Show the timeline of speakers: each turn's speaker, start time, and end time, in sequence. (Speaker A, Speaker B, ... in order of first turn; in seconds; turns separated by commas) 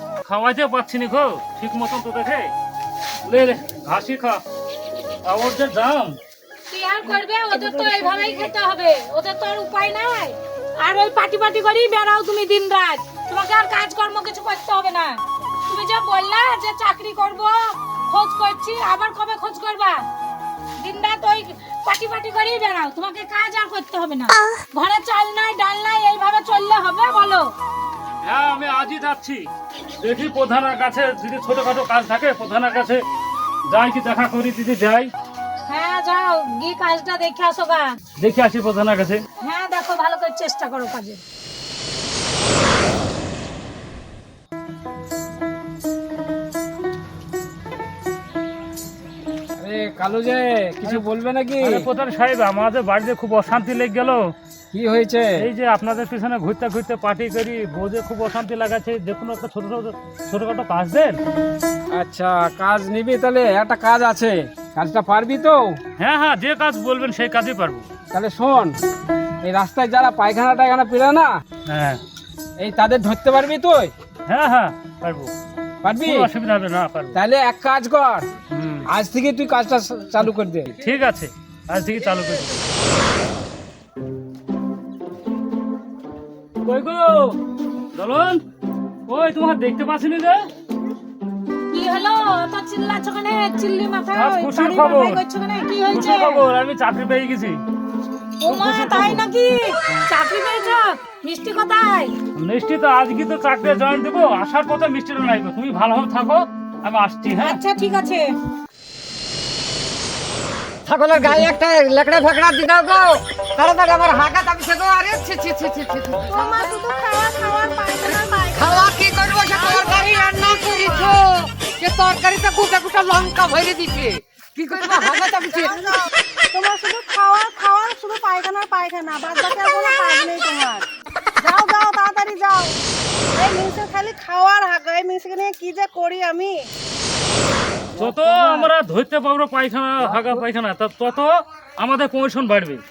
Speaker A: 0.2-2.5, Speaker A: 3.2-4.4, Speaker A: 5.2-6.2, Speaker B: 6.7-15.1, Speaker C: 7.5-8.3, Speaker B: 15.7-20.0, Speaker B: 20.8-27.5, Speaker A: 28.2-29.4, Speaker A: 30.0-33.0, Speaker A: 33.7-35.1, Speaker B: 35.7-37.9, Speaker A: 38.2-39.2, Speaker B: 39.4-41.2, Speaker D: 49.6-51.9, Speaker A: 51.6-54.3, Speaker D: 54.7-55.4, Speaker A: 55.4-61.2, Speaker D: 61.9-65.8, Speaker A: 66.0-67.9, Speaker D: 68.1-68.8, Speaker D: 69.4-71.3, Speaker A: 71.7-72.0, Speaker D: 72.6-73.9, Speaker A: 74.3-75.3, Speaker D: 75.8-76.3, Speaker A: 76.0-77.2, Speaker D: 77.1-78.3, Speaker A: 78.5-78.9, Speaker D: 78.9-80.8, Speaker A: 80.8-82.5, Speaker A: 86.6-87.4, Speaker A: 87.9-88.4, Speaker A: 89.1-90.4, Speaker B: 91.7-96.4, Speaker A: 94.1-95.2, Speaker A: 95.9-97.6, Speaker B: 98.4-102.1, Speaker A: 98.4-99.2, Speaker A: 102.4-107.6, Speaker B: 107.4-108.2, Speaker C: 110.8-116.6, Speaker A: 111.2-111.5, Speaker E: 116.3-118.0, Speaker B: 117.4-118.5, Speaker C: 118.0-126.0, Speaker E: 119.5-121.2, Speaker E: 126.5-130.9, Speaker E: 131.4-132.8, Speaker E: 133.3-136.7, Speaker A: 137.9-142.8